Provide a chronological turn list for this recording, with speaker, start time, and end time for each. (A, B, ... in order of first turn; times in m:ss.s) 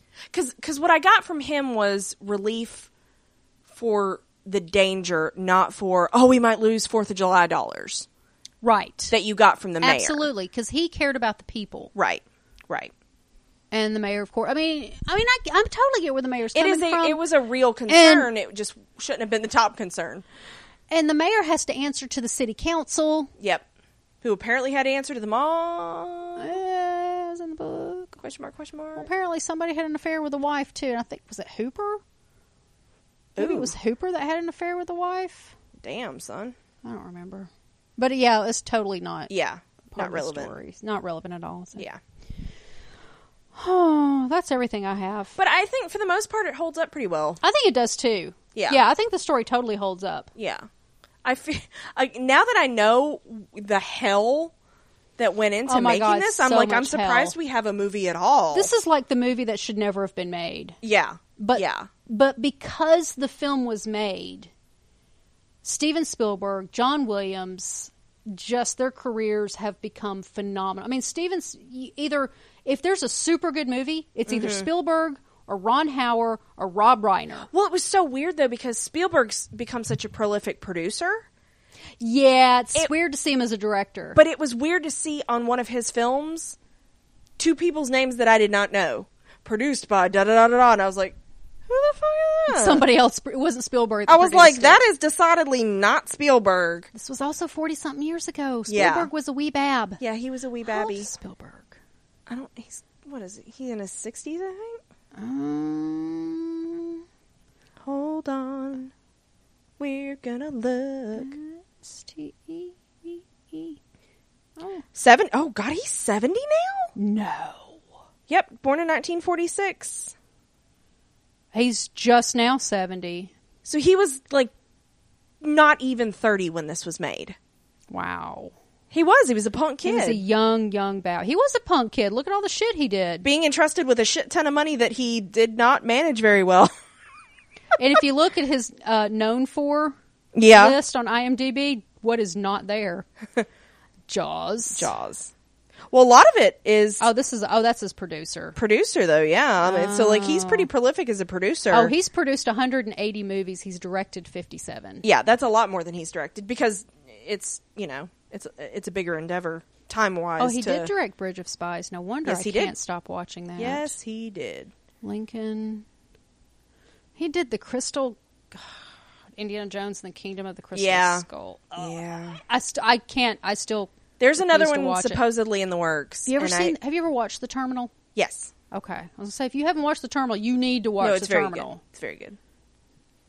0:00.3-0:02.9 A
0:03.7-0:08.1 A
0:08.6-0:09.1 B
0:09.1-0:10.3 A
0:09.8-0:11.9 B
0:12.0-0:12.9 A
0:13.7-0:17.2 B
0:16.5-0:20.2 A
0:17.9-0:18.3 B
0:20.9-0:23.3 B
0:23.4-0:23.6 A
0:24.2-0:26.6 A
0:26.4-0:28.2 B
0:28.2-0:29.1 A
0:29.0-0:32.0 B
0:33.4-0:33.7 A
0:33.4-0:35.6 B
0:35.8-0:36.6 A
0:36.8-0:39.3 B
0:39.3-0:40.5 A
0:39.9-0:41.9 B
0:43.6-0:45.4 B
0:45.4-0:47.4 A
0:47.4-0:50.3 B
0:48.6-0:48.8 A
0:50.4-0:50.7 A
0:51.2-0:54.5 A
0:55.2-0:58.7 A
0:55.7-0:57.4 B
0:58.5-1:00.8 B
1:00.8-1:01.9 A
1:01.4-1:04.5 B
1:05.6-1:17.5 B
1:14.3-1:14.7 A
1:17.5-1:21.2 A
1:22.0-1:24.2 B
1:24.2-1:26.6 A
1:27.4-1:31.2 A
1:31.7-1:32.8 A
1:32.5-1:34.8 B
1:34.1-1:36.9 A
1:36.9-1:40.0 B
1:38.7-1:39.1 A
1:40.0-1:41.1 A
1:40.6-1:41.8 B
1:42.3-1:44.8 A
1:45.1-1:47.0 B
1:47.8-1:48.9 A
1:49.8-1:51.4 A
1:51.2-1:53.8 B
1:54.6-1:54.8 B
1:55.0-1:56.9 A
1:57.0-1:57.8 B
1:58.3-2:00.2 A
2:01.5-2:03.3 B
2:03.6-2:04.5 A
2:05.4-2:07.4 A
2:07.9-2:08.5 B
2:08.9-2:10.2 A
2:09.8-2:13.3 B
2:13.2-2:16.7 A
2:17.8-2:20.0 B
2:20.4-2:20.8 A
2:20.5-2:23.1 B
2:24.1-2:24.9 B
2:24.7-2:25.3 A
2:25.9-2:27.1 A
2:27.0-2:28.6 B
2:28.6-2:31.9 A
2:29.6-2:30.7 B
2:31.7-2:35.0 B
2:35.0-2:40.9 A
2:40.4-2:44.0 B
2:42.2-2:42.7 A
2:43.6-2:44.7 A
2:45.0-2:45.9 B
2:47.2-2:55.2 B
2:50.8-2:52.4 A
2:54.2-2:56.7 A
2:56.3-2:57.9 B
2:58.2-2:58.5 A
2:58.7-3:01.8 B
3:01.0-3:02.4 A